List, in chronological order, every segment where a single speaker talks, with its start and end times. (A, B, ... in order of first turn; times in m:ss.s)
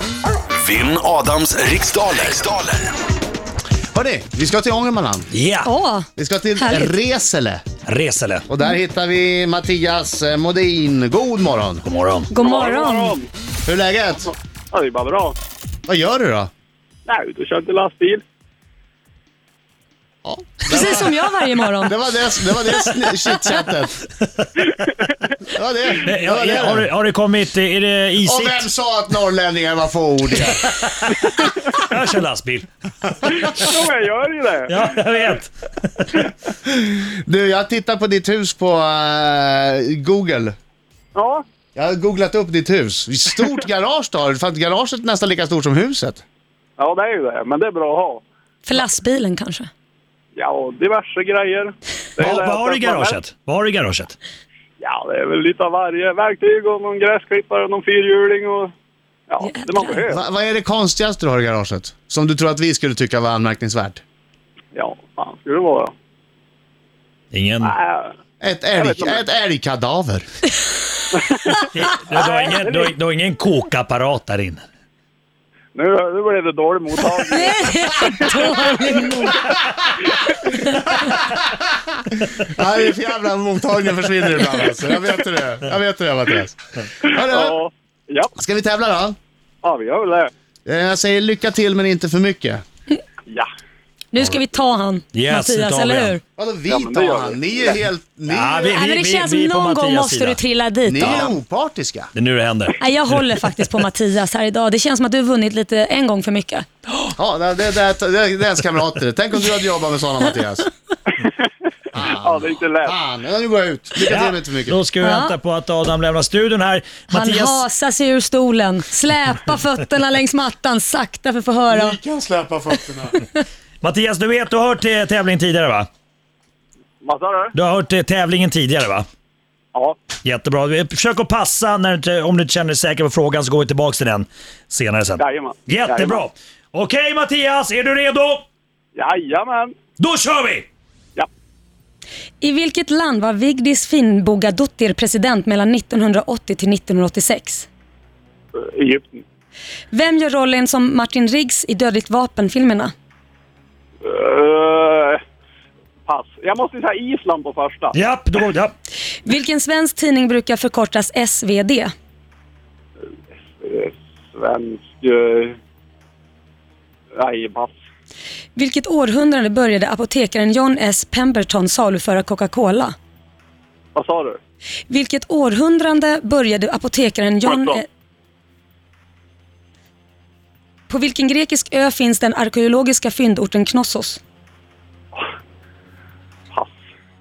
0:00.5-0:02.9 A
0:03.9-0:05.3 B
0:05.3-0:05.7 C
0:05.6-0:06.9 D
0:06.2-0:07.6 B
0:07.8-0:08.4 C
0:08.5-0:11.8 B
0:11.8-0:12.3 C
0:12.3-0:13.2 D
0:12.3-0:13.3 E
0:13.6-0:14.3 B
0:14.3-0:15.4 E
0:15.9-0:16.5 B
0:17.1-0:18.2 E
0:20.2-0:21.1 B
0:20.7-0:22.0 D
0:21.8-0:24.0 B
0:24.6-0:25.1 E
0:25.5-0:26.9 B
0:26.0-0:28.7 C
0:28.2-0:30.6 B
0:30.4-0:32.7 C
0:33.3-0:33.6 C
0:33.4-0:34.9 E
0:34.7-0:36.3 C
0:36.6-0:40.5 B
0:41.1-0:41.4 E
0:41.7-0:46.2 B
0:46.8-0:48.2 E
0:48.6-0:49.7 D
0:50.4-0:53.2 E
0:52.2-0:54.2 C
0:54.8-0:58.7 E
0:59.3-1:00.2 E
0:59.4-1:00.0 D
1:00.1-1:04.0 B
1:04.7-1:05.9 E
1:07.3-1:07.7 C
1:07.6-1:08.1 E
1:08.4-1:10.2 B
1:08.8-1:09.2 E
1:11.1-1:12.9 E
1:11.6-1:14.6 C
1:15.7-1:18.6 E
1:17.3-1:19.5 D
1:20.1-1:20.6 E
1:21.0-1:21.6 B
1:22.4-1:27.6 B
1:27.0-1:28.3 E
1:28.4-1:29.2 B
1:29.6-1:30.3 E
1:30.6-1:32.6 B
1:34.1-1:36.2 D
1:35.1-1:36.2 C
1:36.4-1:38.7 B
1:36.7-1:37.8 E
1:38.3-1:40.4 C
1:38.6-1:41.3 D
1:40.9-1:42.1 B
1:41.0-1:41.3 C
1:42.1-1:42.8 C
1:42.8-1:46.7 D
1:47.2-1:50.7 B
1:51.2-1:51.5 E
1:51.9-1:54.8 B
1:52.2-1:53.0 E
1:54.0-1:57.6 C
1:55.0-1:55.3 D
1:57.1-2:02.0 D
2:01.7-2:03.2 B
2:03.8-2:05.9 C
2:07.0-2:07.5 E
2:07.5-2:09.0 C
2:09.7-2:10.0 E
2:10.2-2:18.4 C
2:15.2-2:16.2 E
2:18.9-2:19.7 E
2:20.0-2:20.7 C
2:22.4-2:27.7 D
2:28.6-2:29.2 E
2:29.9-2:32.9 D
2:34.0-2:35.2 E
2:36.1-2:37.9 E
2:37.9-2:38.7 C
2:39.2-2:41.9 D
2:43.6-2:45.5 E
2:47.1-2:47.8 E
2:48.6-2:52.9 D
2:53.9-2:54.4 E
2:54.9-2:57.9 D
2:57.4-2:57.8 E
3:00.9-3:04.2 D